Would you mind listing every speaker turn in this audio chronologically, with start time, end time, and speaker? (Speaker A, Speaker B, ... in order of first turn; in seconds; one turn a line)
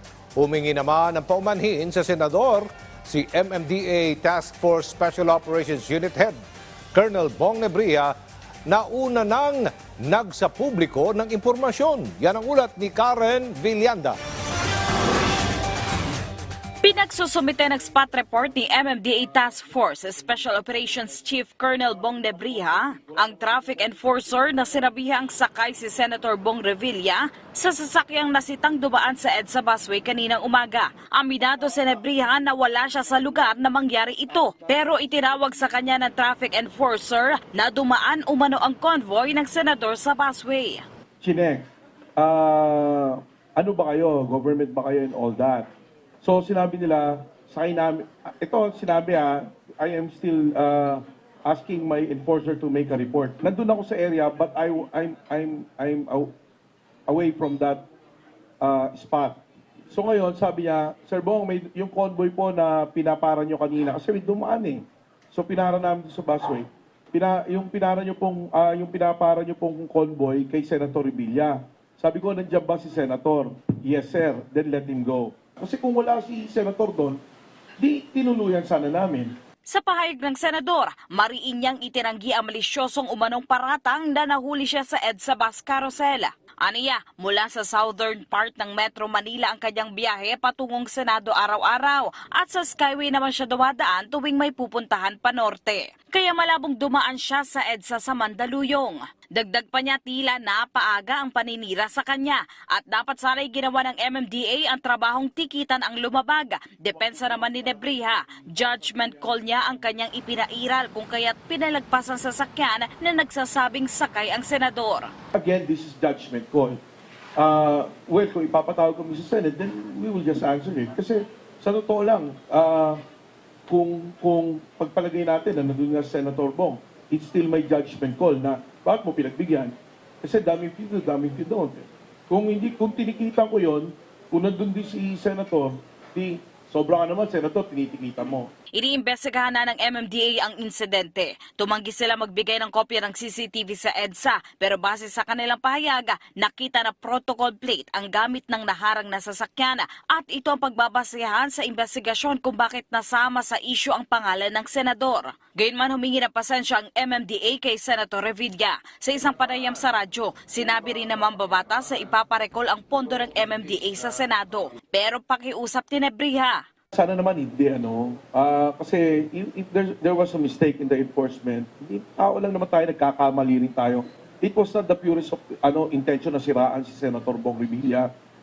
Speaker A: 0.4-6.4
Speaker A: 6.9-8.1
Speaker A: 8.7-14.2
Speaker B: 16.8-40.8
Speaker C: 41.2-45.7
Speaker C: 46.2-56.3
Speaker C: 57.1-57.9
Speaker C: 58.6-77.2
Speaker C: 77.8-79.3
Speaker B: 79.7-115.1
Speaker C: 115.3-116.8
Speaker C: 117.3-123.0
Speaker C: 123.7-138.5
Speaker B: 138.7-166.6
Speaker C: 166.9-178.1